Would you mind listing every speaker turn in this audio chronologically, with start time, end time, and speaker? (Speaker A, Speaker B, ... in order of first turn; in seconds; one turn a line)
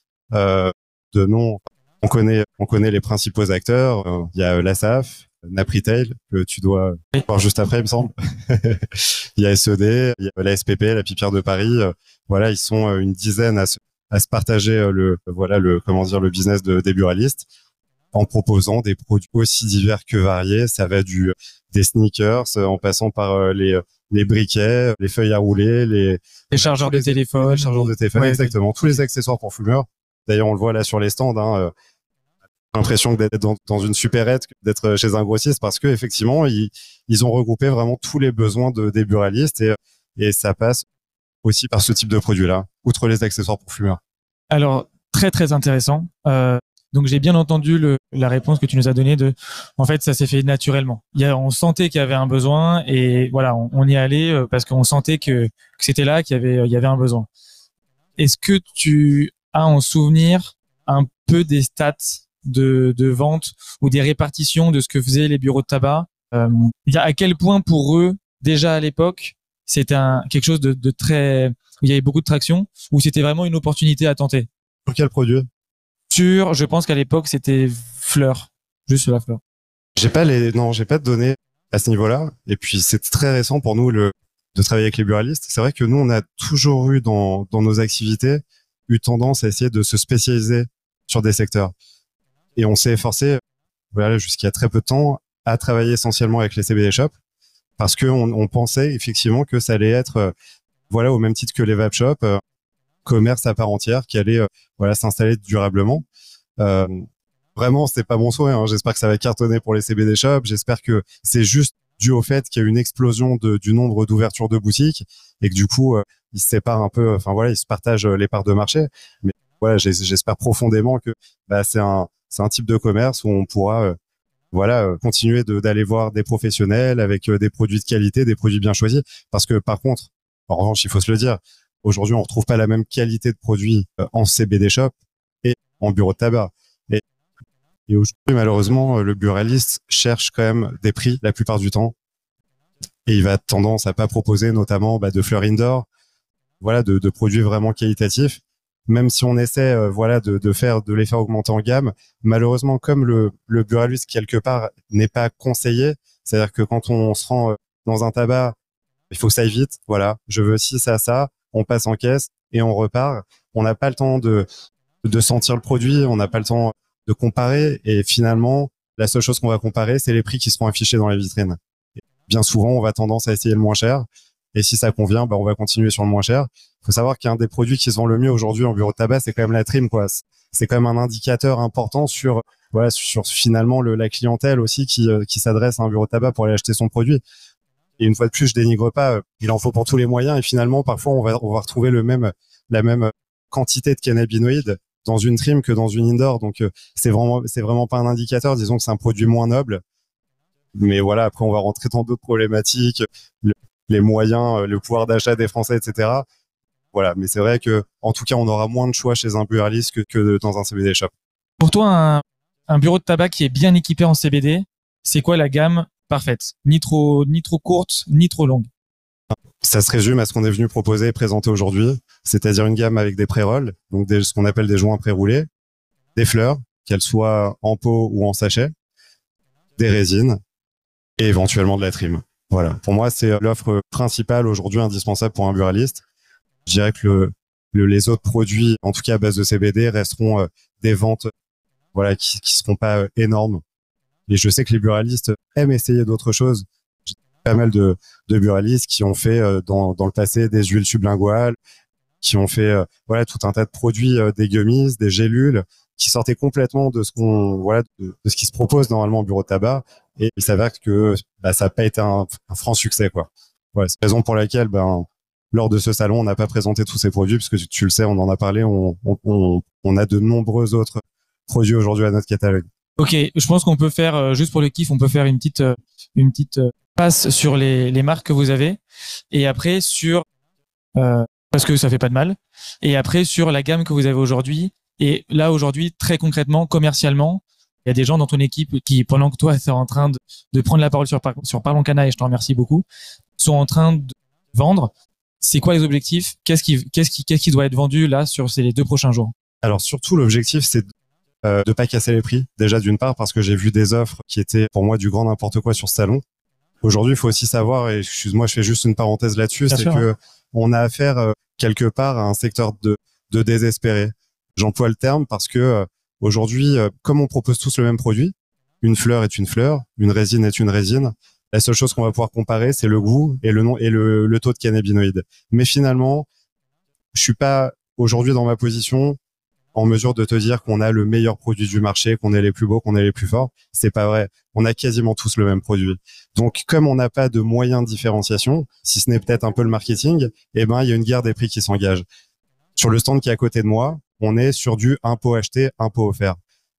Speaker A: 0.3-17.5
Speaker A: 18.1-31.7
Speaker B: 26.5-28.5
Speaker A: 32.7-40.9
Speaker A: 41.4-44.0
Speaker B: 44.5-57.3
Speaker B: 58.2-74.5
Speaker A: 74.9-75.5
Speaker B: 76.1-79.4
Speaker A: 80.0-91.7
Speaker A: 92.6-93.4
Speaker A: 93.9-97.1
Speaker A: 97.8-100.3
Speaker A: 100.9-102.4
Speaker A: 103.0-106.1
Speaker A: 106.6-124.0
Speaker A: 124.5-134.9
Speaker A: 135.4-137.0
Speaker A: 137.9-141.9
Speaker A: 143.1-145.9
Speaker A: 146.6-158.6
Speaker A: 159.1-164.5
Speaker A: 165.0-171.6
Speaker A: 172.3-187.2
Speaker A: 188.0-199.8
Speaker A: 200.7-206.3
Speaker A: 206.9-211.1
Speaker B: 211.6-218.7
Speaker A: 219.3-225.5
Speaker A: 226.2-228.7
Speaker A: 229.8-230.4
Speaker A: 231.2-236.0
Speaker A: 236.7-241.3
Speaker A: 241.9-243.6
Speaker A: 244.3-251.6
Speaker A: 252.2-272.7
Speaker B: 273.0-278.8
Speaker B: 279.3-280.2
Speaker B: 281.0-292.8
Speaker B: 293.4-294.9
Speaker B: 295.4-299.3
Speaker A: 299.6-300.9
Speaker A: 301.4-306.2
Speaker A: 306.8-326.3
Speaker B: 309.7-310.0
Speaker A: 327.1-329.2
Speaker A: 329.7-342.1
Speaker A: 342.8-346.4